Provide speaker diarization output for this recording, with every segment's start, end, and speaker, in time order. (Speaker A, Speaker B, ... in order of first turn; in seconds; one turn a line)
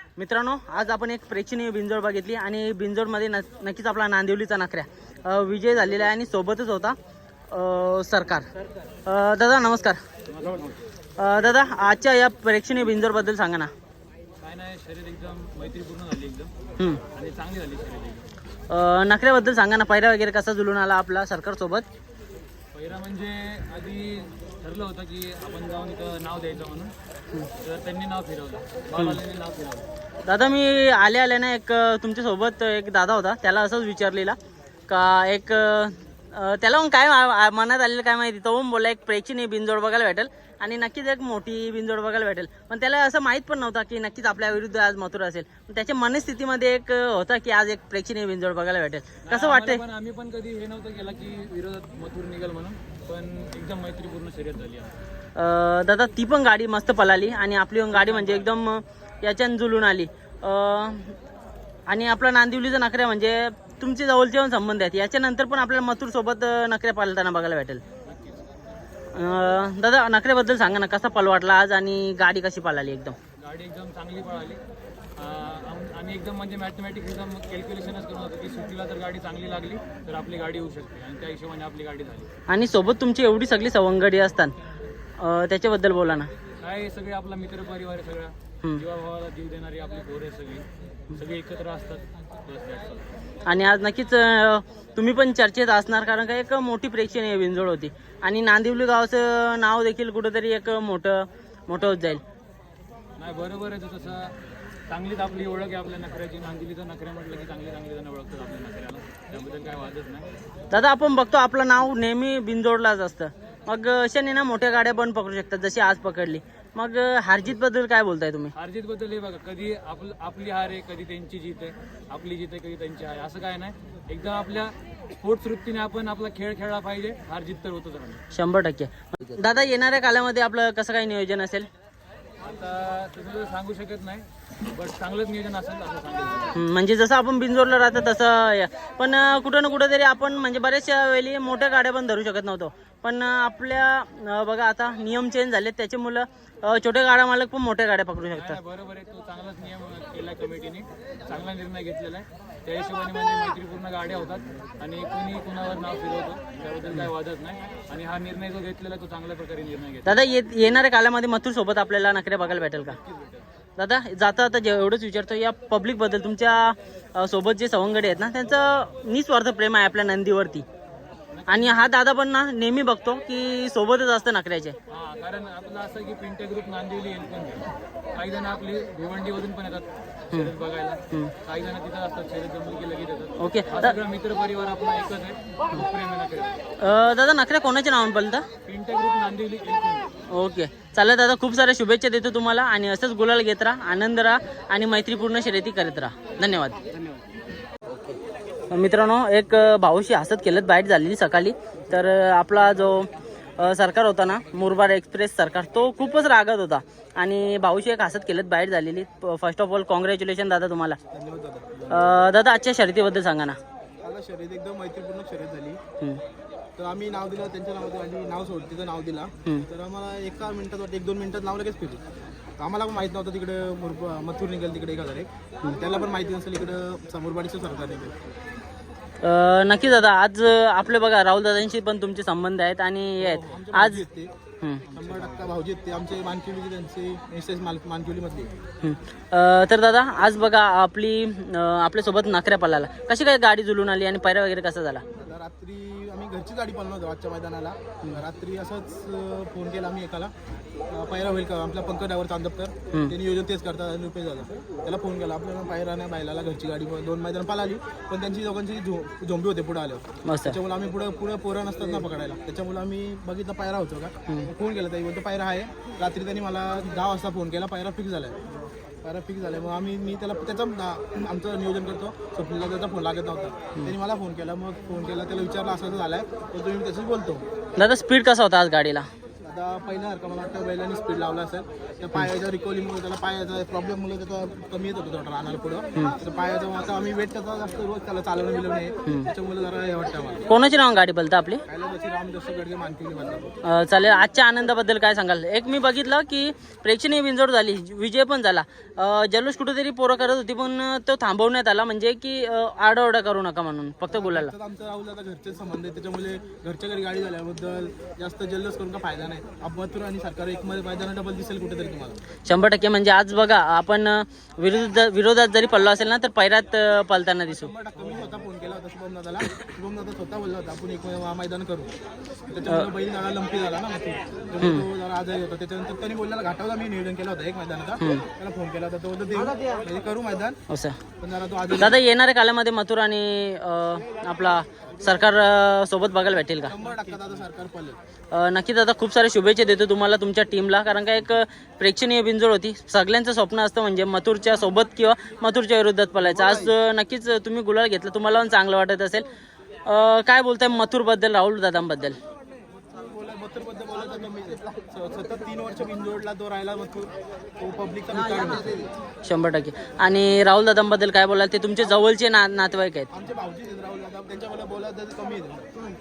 Speaker A: 0.2-7.0
Speaker A: 7.5-8.5
Speaker A: 9.1-10.0
Speaker B: 10.3-10.8
Speaker A: 11.2-13.7
Speaker B: 14.4-16.5
Speaker B: 17.1-18.3
Speaker A: 18.7-21.9
Speaker B: 22.7-26.9
Speaker B: 27.6-29.9
Speaker A: 30.2-34.4
Speaker A: 34.9-49.8
Speaker B: 49.2-55.0
Speaker A: 55.4-61.1
Speaker B: 57.9-58.5
Speaker A: 61.9-67.8
Speaker B: 68.0-68.7
Speaker A: 69.1-73.2
Speaker B: 73.4-74.6
Speaker B: 75.2-82.3
Speaker A: 82.5-84.5
Speaker A: 85.2-86.3
Speaker B: 86.6-93.1
Speaker A: 93.5-102.2
Speaker B: 103.2-104.3
Speaker B: 104.9-110.3
Speaker A: 110.7-118.5
Speaker B: 118.5-128.2
Speaker A: 128.3-131.7
Speaker B: 132.4-136.6
Speaker A: 136.5-148.6
Speaker B: 148.3-160.2
Speaker A: 160.0-163.0
Speaker B: 163.0-163.4
Speaker A: 163.8-170.7
Speaker B: 171.3-171.9
Speaker A: 171.5-174.8
Speaker B: 174.9-186.6
Speaker A: 183.4-183.9
Speaker A: 186.8-188.4
Speaker B: 188.7-190.1
Speaker A: 190.3-196.8
Speaker A: 198.7-211.0
Speaker C: 211.1-211.9
Speaker A: 211.9-213.6
Speaker C: 214.0-215.8
Speaker C: 216.8-222.0
Speaker C: 222.6-228.1
Speaker A: 229.2-234.0
Speaker C: 233.2-234.3
Speaker B: 234.9-235.5
Speaker C: 234.9-238.5
Speaker A: 238.8-245.0
Speaker C: 245.2-250.3
Speaker C: 250.9-268.4
Speaker A: 260.2-260.6
Speaker C: 269.0-277.4
Speaker A: 277.8-279.1
Speaker C: 279.4-290.5
Speaker A: 290.5-291.6
Speaker C: 291.6-293.5
Speaker A: 293.6-304.5
Speaker C: 304.1-312.2
Speaker A: 312.5-317.7
Speaker C: 317.5-321.9
Speaker C: 322.5-330.6
Speaker A: 324.6-324.9
Speaker A: 328.0-328.3
Speaker A: 330.7-331.0
Speaker C: 331.2-332.0
Speaker A: 331.8-336.8
Speaker C: 336.6-338.0
Speaker A: 338.3-349.2
Speaker C: 346.2-346.7
Speaker A: 349.9-352.2
Speaker C: 352.9-358.9
Speaker A: 359.2-363.1
Speaker C: 363.1-365.7